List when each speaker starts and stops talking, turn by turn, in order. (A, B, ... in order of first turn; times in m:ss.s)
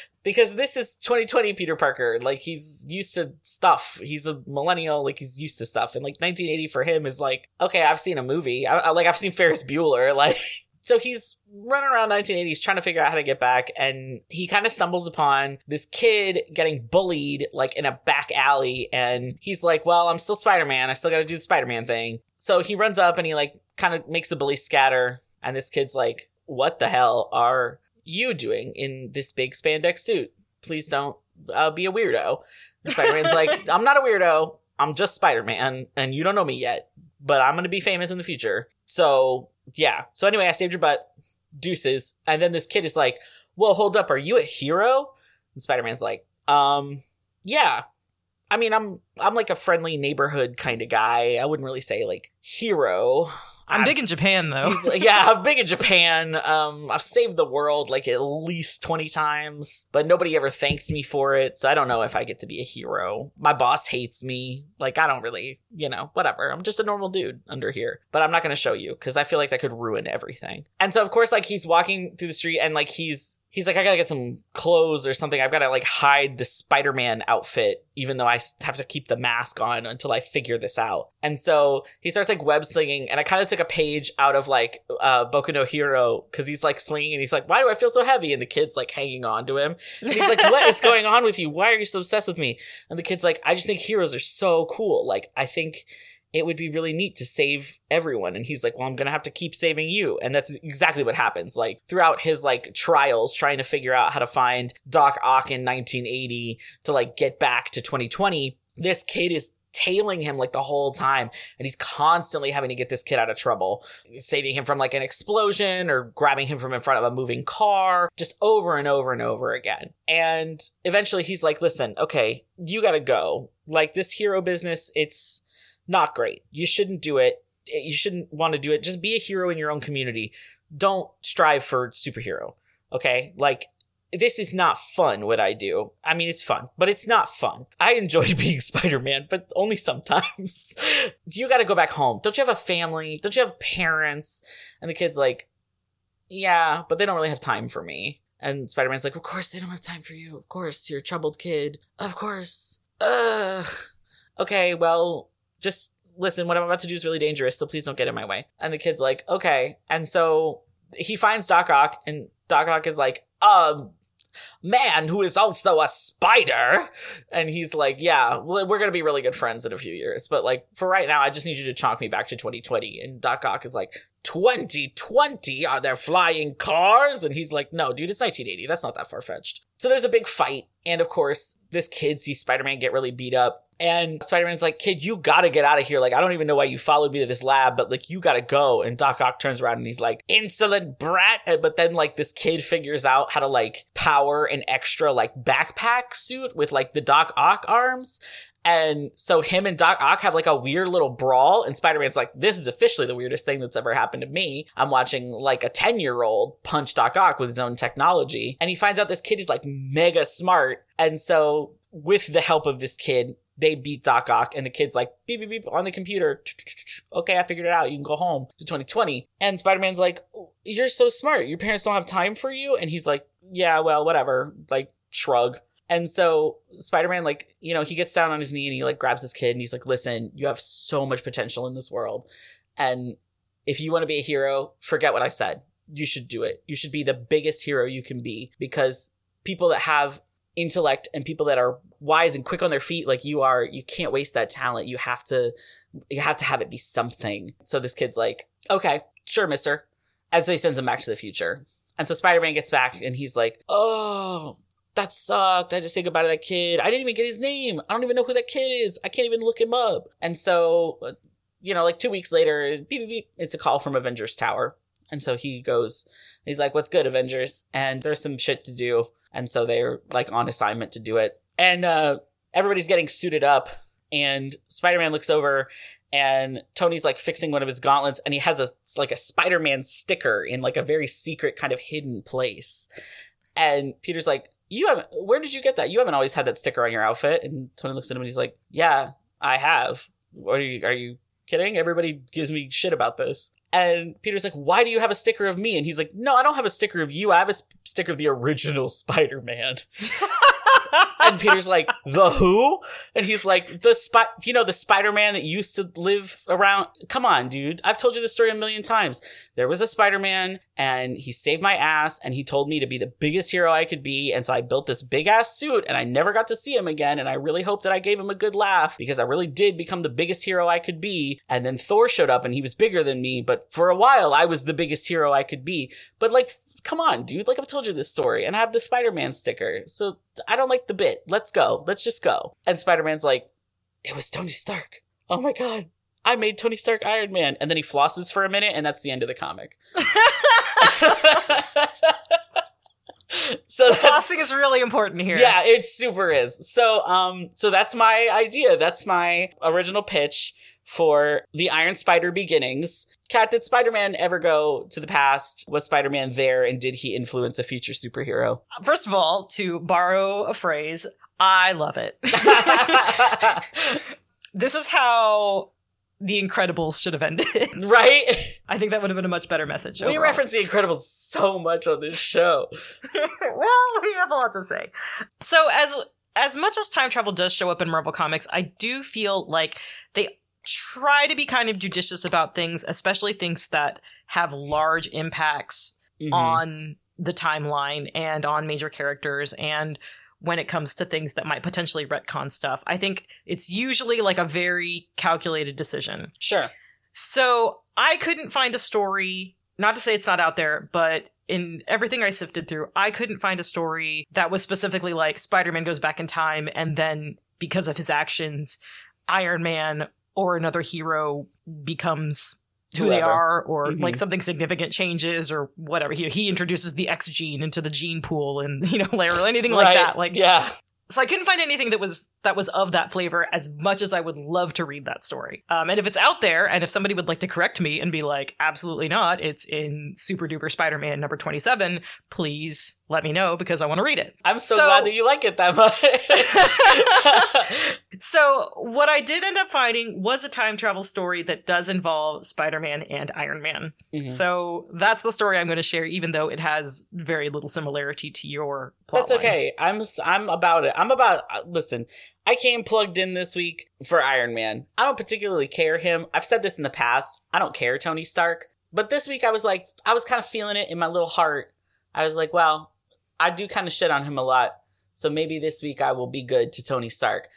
0:00.2-0:47.8 A
0:33.0-0:33.5 B
0:48.5-2:25.5 A
0:53.7-0:55.0 B
1:30.1-1:30.9 B
2:26.3-2:33.7 A
2:34.4-2:43.9 A
2:44.6-3:52.3 A
3:52.8-4:05.5 A
4:06.1-4:42.9 A
4:43.6-4:59.8 A
5:00.2-5:01.2 B
5:01.2-5:33.5 A
5:34.0-5:39.8 A
5:40.0-5:41.0 B
5:40.8-5:42.1 A
5:43.7-5:44.2 A
5:43.8-5:45.5 B
5:45.3-5:58.6 A
5:58.7-6:04.0 B
6:02.3-6:04.0 A
6:04.6-6:07.8 B
6:07.8-6:08.6 A
6:08.7-6:10.4 B
6:10.0-6:12.7 A
6:13.1-6:36.3 B
6:26.2-6:26.6 A
6:36.4-6:36.7 A
6:37.1-7:00.4 B
6:52.9-6:54.2 A
6:59.7-7:00.7 A
7:01.1-7:15.1 B
7:14.4-7:17.9 A
7:16.4-7:29.5 B
7:24.1-7:24.4 A
7:29.1-7:47.5 A